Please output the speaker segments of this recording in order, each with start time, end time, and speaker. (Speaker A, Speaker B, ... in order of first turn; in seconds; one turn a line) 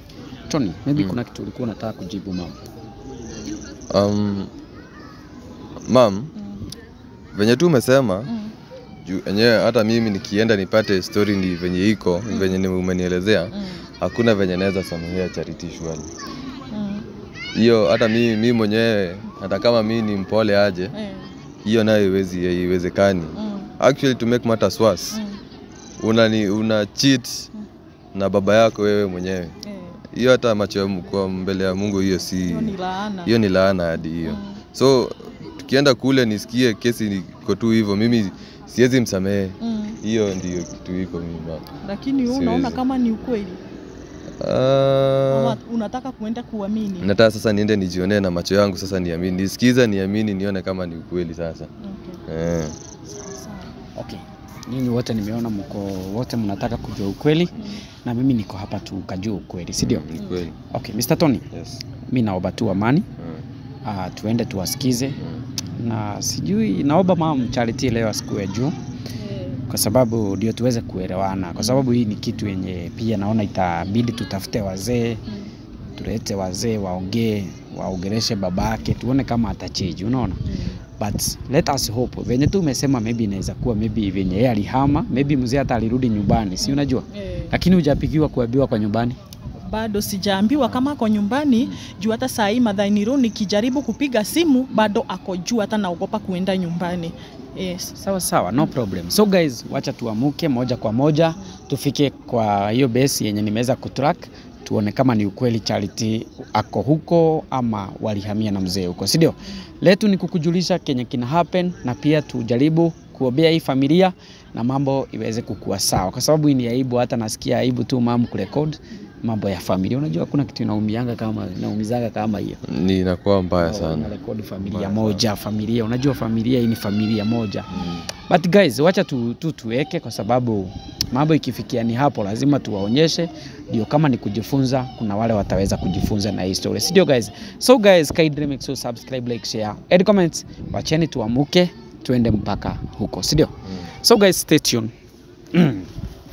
Speaker A: 0.5-2.6
Speaker B: 3.9-4.5
Speaker B: 5.9-6.3
Speaker B: 7.3-8.3
Speaker C: 8.3-8.5
Speaker B: 9.1-16.1
Speaker C: 13.6-13.8
Speaker C: 16.7-17.1
Speaker B: 17.6-20.9
Speaker C: 20.9-21.3
Speaker B: 21.6-25.2
Speaker C: 23.4-23.7
Speaker C: 25.1-25.4
Speaker B: 26.0-27.5
Speaker B: 28.1-29.6
Speaker C: 29.6-30.0
Speaker B: 30.1-32.8
Speaker C: 32.5-33.3
Speaker B: 33.3-41.6
Speaker C: 34.2-34.6
Speaker C: 39.6-40.0
Speaker C: 41.8-43.6
Speaker B: 42.3-42.8
Speaker B: 44.4-45.6
Speaker C: 45.3-47.1
Speaker B: 47.0-51.7
Speaker C: 51.8-52.2
Speaker B: 52.3-52.8
Speaker C: 53.1-53.7
Speaker A: 54.0-60.1
Speaker B: 59.8-60.5
Speaker A: 60.7-61.5
Speaker B: 61.5-61.8
Speaker A: 62.1-63.1
Speaker B: 63.2-63.4
Speaker A: 63.9-65.2
Speaker A: 65.8-68.8
Speaker C: 69.2-69.6
Speaker A: 69.7-75.2
Speaker A: 76.0-80.4
Speaker C: 80.5-80.8
Speaker A: 81.0-89.2
Speaker C: 86.6-87.5
Speaker C: 89.6-97.9
Speaker A: 98.0-122.6
Speaker B: 122.7-125.2
Speaker A: 123.6-144.9
Speaker B: 127.7-128.0
Speaker A: 145.5-145.9